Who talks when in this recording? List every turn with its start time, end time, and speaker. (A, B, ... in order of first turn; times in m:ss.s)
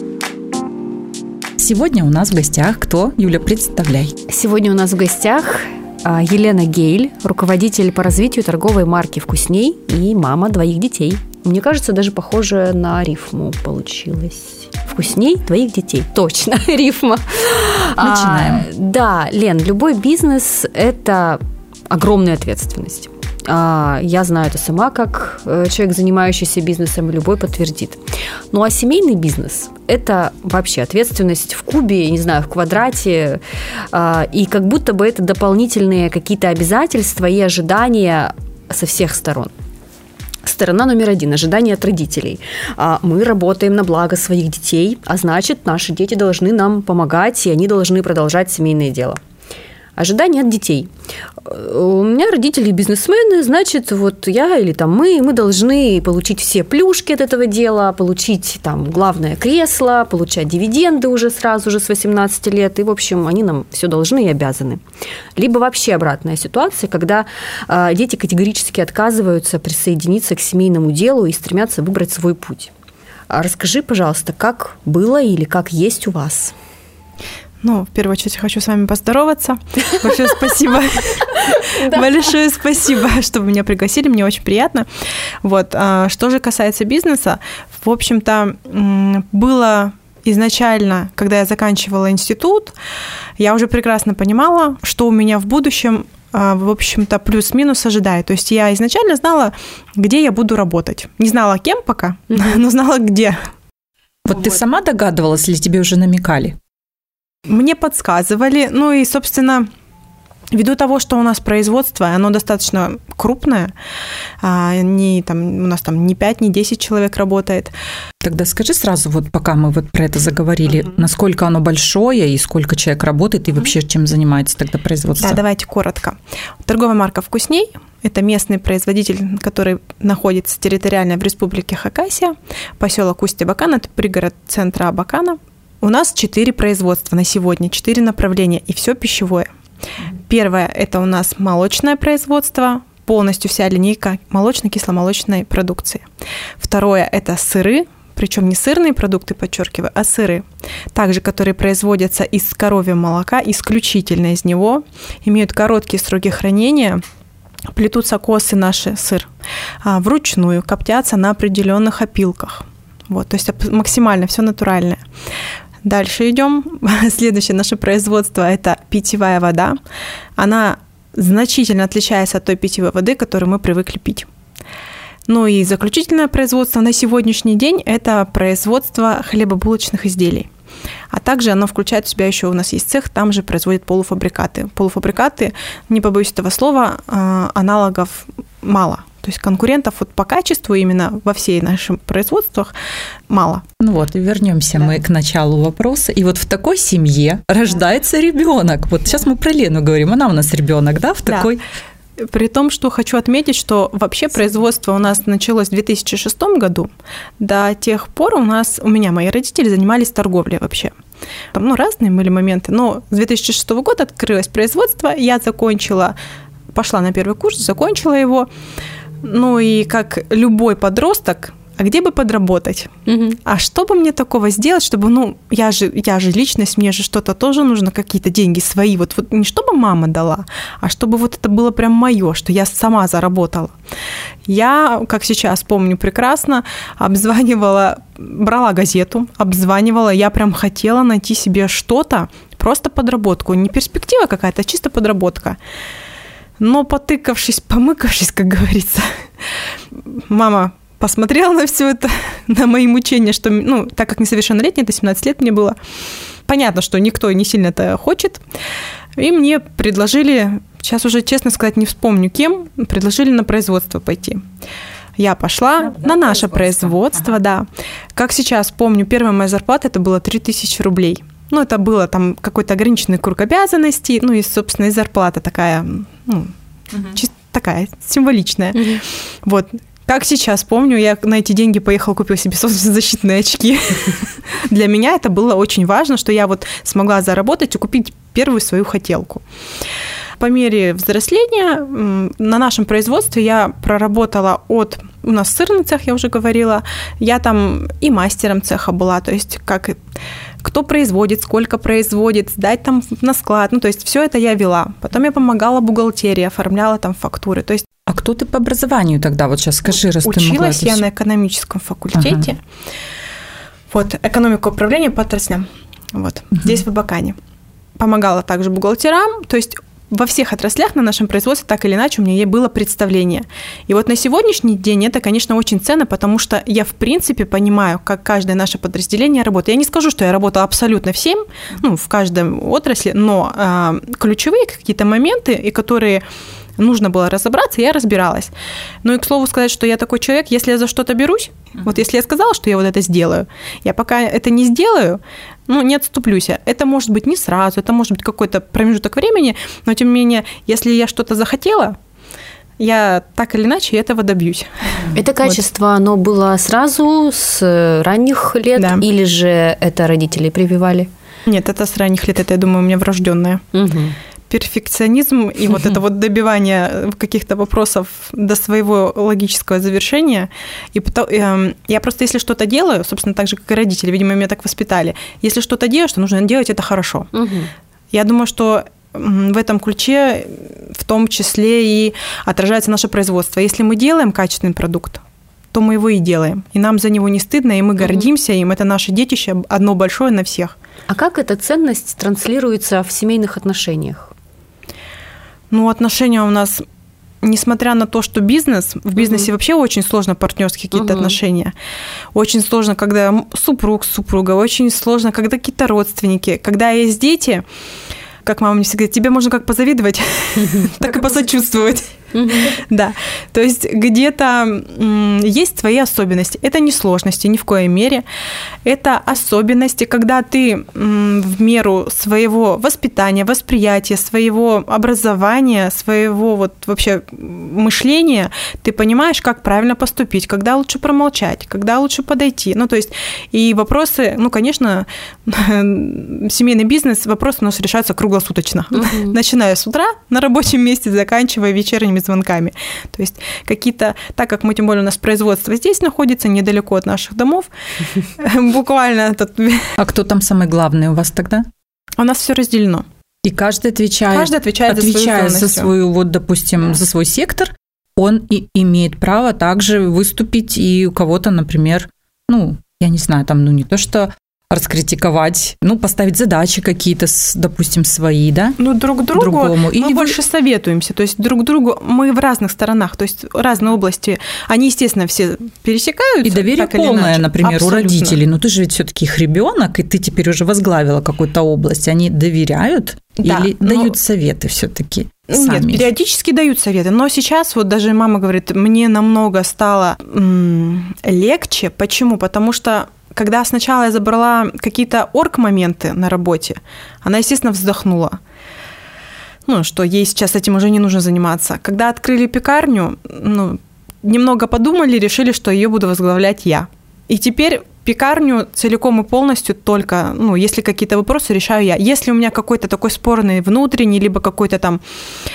0:01.6-0:04.2 A
0:04.3-0:28.0 B
0:18.0-0:18.7 A
0:28.5-0:39.5 B
0:40.4-0:49.2 B
0:50.0-0:50.9 B
0:51.4-1:04.8 B
1:05.4-1:12.7 B
1:13.3-1:16.5 B
1:17.6-1:24.9 C
1:21.3-1:22.2 B
1:25.4-1:32.7 C
1:33.4-1:43.4 C
1:44.2-1:46.6 A
1:47.5-1:49.7 C
1:50.5-1:53.7 C
1:54.4-1:57.7 C
1:58.2-2:05.4 A
2:05.2-2:19.5 C
2:20.1-2:26.1 C
2:26.6-2:37.0 C
2:37.7-2:39.3 C
2:39.8-2:45.0 C
2:45.8-2:49.8 C
2:50.4-2:54.3 C
2:55.3-3:00.5 C
3:01.1-3:12.7 C
3:13.3-3:13.6 C
3:13.8-3:21.6 A
3:21.2-3:21.5 C
3:22.2-3:30.9 C
3:31.5-3:36.1 C
3:36.7-3:38.5 C
3:39.2-3:42.9 C
3:43.0-3:43.4 B
3:43.4-3:53.7 C
3:54.4-4:05.6 C
4:06.6-4:15.8 C
4:16.4-4:18.4 C
4:19.2-4:24.4 C
4:25.2-4:36.5 C
4:25.8-4:27.4 A
4:37.1-4:49.4 C
4:38.8-4:39.0 B
4:50.4-5:00.0 C
5:00.6-5:07.9 C
5:08.0-5:11.0 A
5:10.2-5:12.6 C
5:12.1-5:12.5 A
5:13.9-5:17.4 C
5:18.0-5:36.2 C
5:36.8-5:38.5 C
5:39.0-5:52.0 C
5:52.8-5:55.6 C
5:55.1-6:01.1 B
5:58.8-5:59.0 C
6:01.4-6:03.6 C
6:03.7-6:04.2 B
6:04.5-6:17.3 C
6:17.3-6:17.7 B
6:18.1-6:30.8 C
6:31.1-6:34.3 B
6:35.7-6:36.8 C
6:37.4-6:41.7 C
6:40.9-6:41.4 B
6:42.3-6:47.6 C
6:48.4-6:58.2 C
6:52.3-6:52.8 B
6:58.8-7:27.7 C
7:18.9-7:19.4 B
7:28.2-7:29.9 C
7:30.0-7:31.7 A
7:32.2-7:33.0 C
7:33.4-7:48.8 A
7:34.3-7:35.9 C
7:48.8-7:58.4 C
7:49.3-7:50.4 A
7:56.4-8:06.1 A
8:03.4-8:04.1 C
8:05.5-8:18.4 C
8:19.6-8:35.0 C